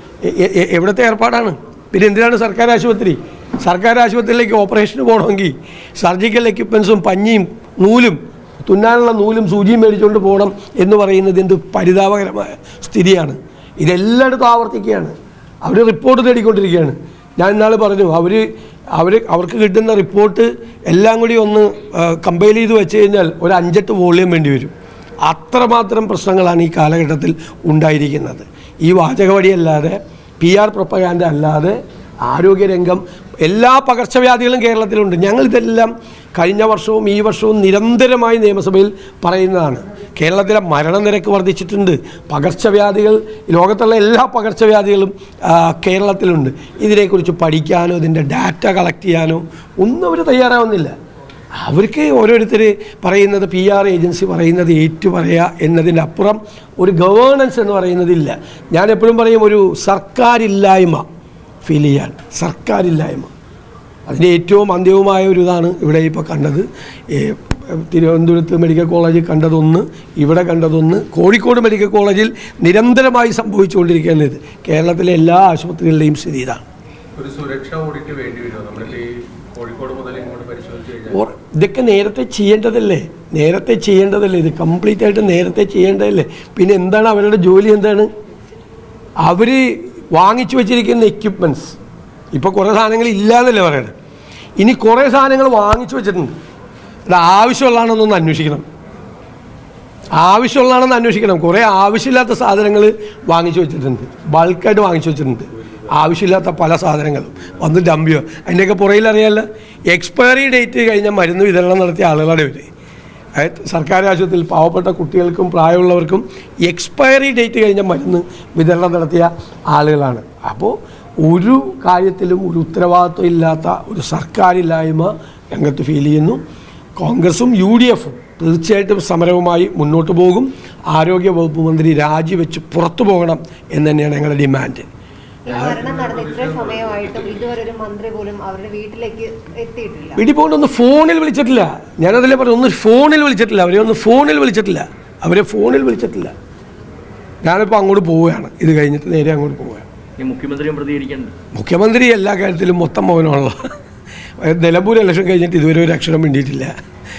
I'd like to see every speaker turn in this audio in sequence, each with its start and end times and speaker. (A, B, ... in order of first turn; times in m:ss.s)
0:00.2-0:24.7 A
0:25.2-0:50.9 A
0:51.6-1:01.0 A
1:01.6-1:03.3 A
1:04.1-1:16.6 A
1:17.2-1:21.2 B
1:21.1-1:28.1 A
1:29.2-1:31.8 A
1:32.3-1:33.9 A
1:34.6-1:36.3 A
1:37.1-1:38.6 A
1:40.1-1:52.7 A
1:53.4-2:06.4 A
2:07.0-2:14.9 A
2:15.4-2:20.2 C
2:15.7-2:16.8 B
2:20.2-2:26.3 A
2:27.4-2:29.9 A
2:30.2-2:31.3 B
2:31.5-2:33.7 A
2:34.4-2:36.7 A